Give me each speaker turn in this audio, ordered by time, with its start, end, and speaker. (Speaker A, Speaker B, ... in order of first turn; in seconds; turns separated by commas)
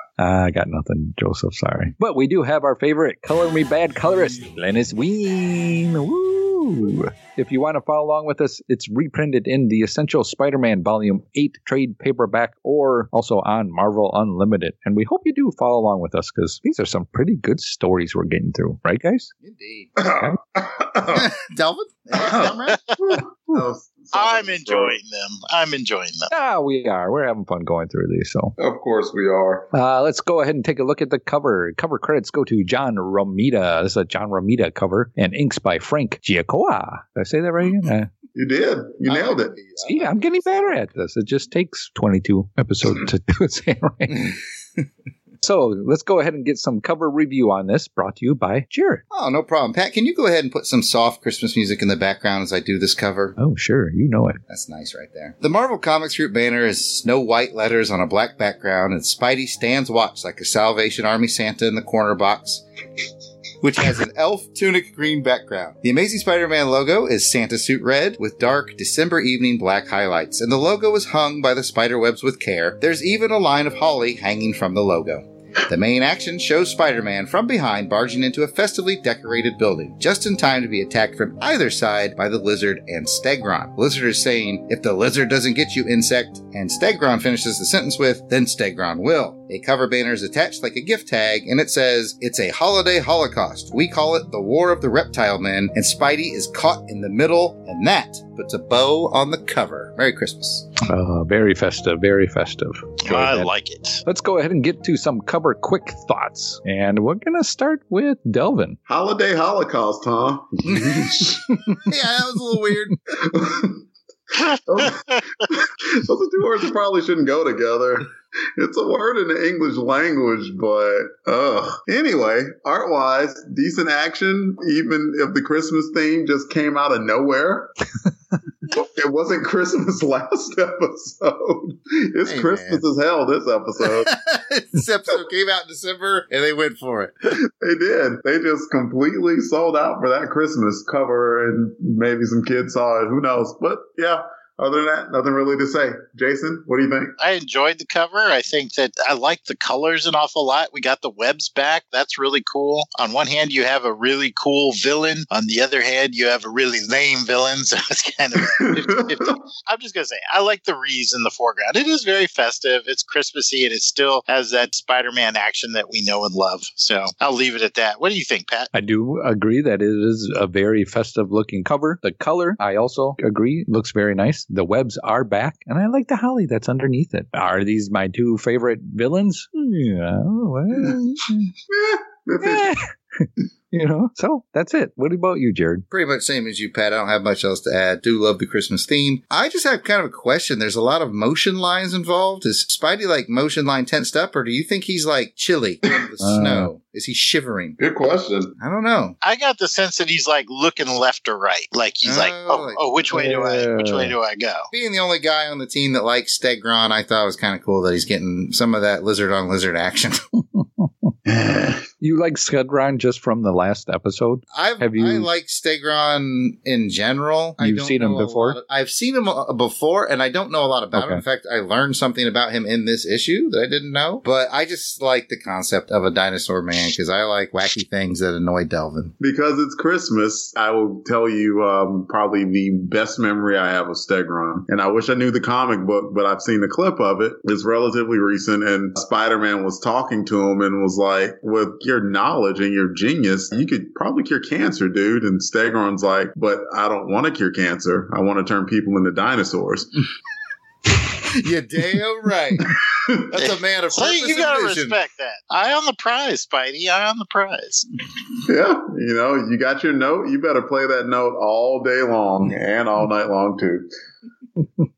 Speaker A: 0.2-19.3, Speaker B: 19.4-20.0, Speaker C: 20.0-21.3, Speaker B: 21.1-22.8, Speaker C: 22.1-24.9, Speaker D: 24.1-26.3, Speaker A: 26.3-28.6, Speaker C: 28.6-29.7, Speaker A: 29.7-38.1, Speaker C: 38.4-39.6, Speaker B: 39.0-40.8, Speaker A: 39.8-44.4, Speaker A: 45.4-49.0, Speaker B: 49.1-53.4, Speaker A: 53.4-54.4, Speaker B: 54.5-62.6, Speaker B: 63.6-100.7, Speaker A: 100.9-103.5, Speaker D: 103.1-104.0, Speaker A: 104.0-108.8, Speaker C: 108.9-111.6, Speaker B: 110.7-111.0, Speaker B: 111.8-113.0, Speaker C: 113.2-113.8, Speaker C: 114.4-127.8, Speaker C: 128.7-134.1, Speaker B: 132.2-132.8, Speaker B: 133.8-137.1, Speaker C: 137.6-147.1, Speaker D: 147.2-168.7, Speaker C: 158.6-159.3, Speaker A: 168.7-181.5, Speaker C: 181.7-182.7, Speaker A: 182.4-185.9, Speaker B: 185.9-197.8, Speaker A: 196.2-196.7, Speaker C: 197.8-198.5, Speaker B: 198.6-199.2, Speaker D: 199.2-204.7, Speaker B: 202.0-202.9, Speaker A: 203.1-204.1, Speaker B: 204.7-210.2, Speaker A: 210.6-211.1, Speaker C: 211.3-211.9, Speaker A: 212.0-215.3, Speaker B: 214.5-229.1, Speaker A: 217.6-218.6, Speaker A: 220.9-221.2, Speaker C: 229.2-249.9, Speaker B: 251.3-252.7, Speaker C: 252.7-253.2, Speaker B: 253.3-255.0, Speaker D: 253.4-257.9, Speaker C: 258.4-263.9